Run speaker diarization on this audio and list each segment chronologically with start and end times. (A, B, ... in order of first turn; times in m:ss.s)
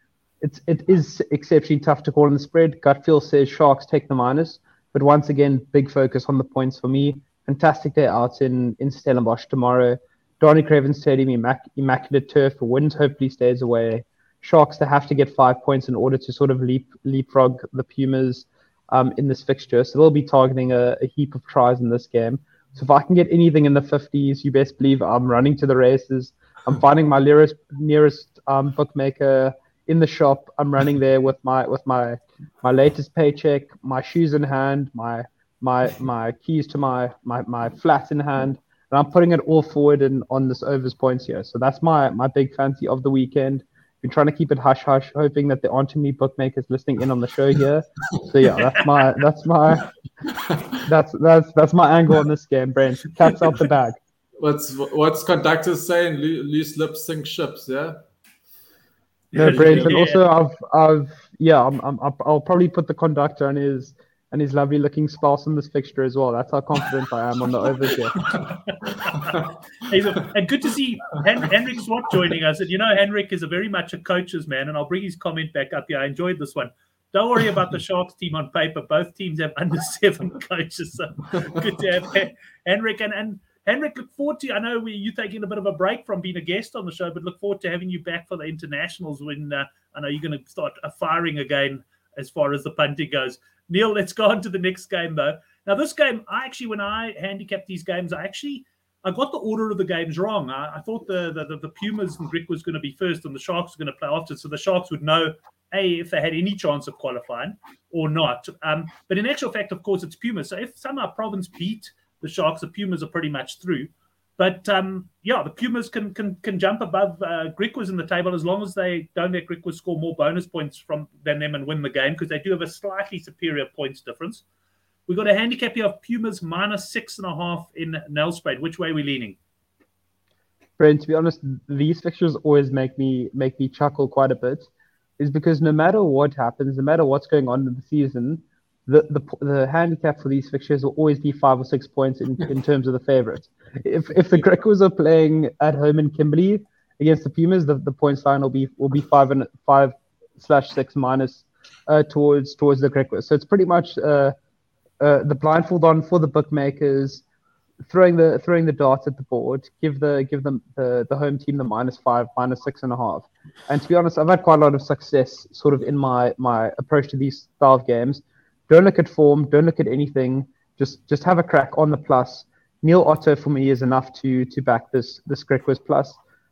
0:00.4-0:49.9 A
0:50.8-0:54.0 A
0:54.4-0:58.0 B
0:59.3-1:00.2 C
0:59.3-1:08.2 A
0:59.4-1:00.0 B
1:08.8-2:04.4 C
2:05.1-2:09.4 C
2:10.8-2:14.7 A
2:15.2-2:34.3 A
2:35.0-2:37.2 A
2:37.9-2:56.2 A